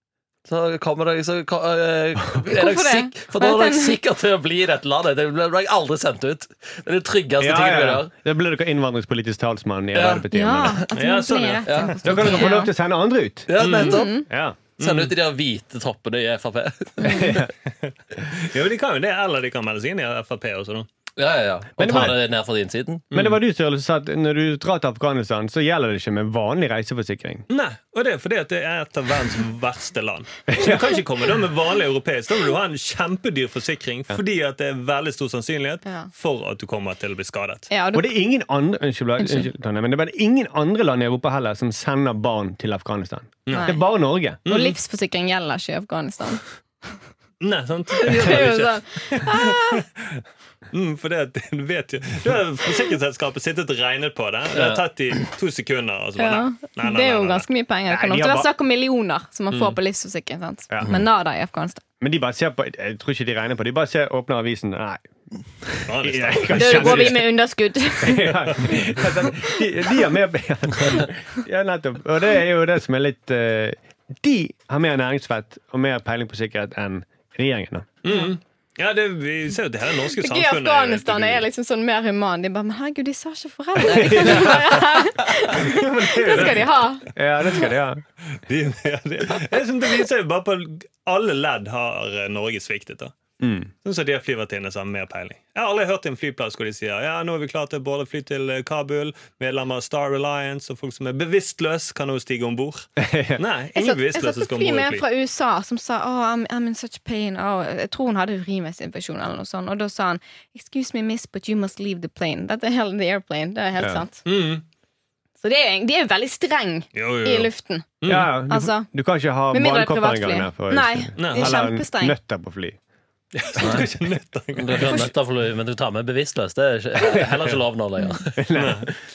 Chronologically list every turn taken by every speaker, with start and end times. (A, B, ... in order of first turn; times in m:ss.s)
0:00.4-0:08.1 A
0:02.5-0:04.0 B
0:07.4-0:10.8 C
0:09.9-0:10.2 A
0:10.3-0:12.7 B
0:10.9-0:12.1 D
0:11.6-0:12.4 A
0:12.0-0:13.7 C
0:13.5-0:14.3 A
0:13.6-0:14.0 D
0:13.7-0:14.3 B
0:14.2-0:14.7 C
0:14.8-0:15.1 D
0:14.8-0:17.5 A
0:17.0-0:17.4 B
0:17.1-0:17.5 C
0:17.8-0:20.9 D
0:21.2-0:23.1 A
0:21.8-0:22.2 C
0:23.1-0:27.4 C
0:27.5-0:37.7 D
0:30.5-0:31.0 C
0:37.7-0:38.1 B
0:37.9-0:44.4 C
0:39.2-0:39.5 B
0:43.4-0:43.7 D
0:43.5-0:43.8 B
0:44.4-0:46.4 B
0:44.4-0:44.8 D
0:47.4-0:57.4 D
0:48.0-0:49.8 B
0:54.5-0:54.8 A
0:56.2-1:01.8 B
0:57.9-0:58.5 C
0:59.5-0:59.8 D
1:00.7-1:01.0 C
1:02.0-1:05.1 C
1:05.6-1:07.4 C
1:05.9-1:07.2 D
1:06.5-1:08.8 B
1:08.0-1:17.9 C
1:08.5-1:08.7 D
1:18.0-1:21.4 D
1:20.1-1:27.0 B
1:23.9-1:24.8 C
1:25.5-1:26.8 D
1:26.3-1:26.6 C
1:27.1-1:28.0 C
1:28.5-1:33.1 D
1:33.4-1:33.7 C
1:33.8-1:45.0 D
1:43.0-1:43.4 C
1:43.7-1:54.2 B
1:54.2-1:54.6 D
1:55.4-1:57.9 B
1:56.9-1:57.5 D
1:58.0-1:58.3 D
1:58.1-2:02.8 C
1:58.5-1:58.9 B
1:59.5-2:02.2 B
2:01.2-2:01.6 D
2:03.3-2:05.1 D
2:03.6-2:03.9 A
2:04.6-2:08.4 A
2:07.0-2:07.3 C
2:08.4-2:08.9 C
2:08.5-2:08.9 D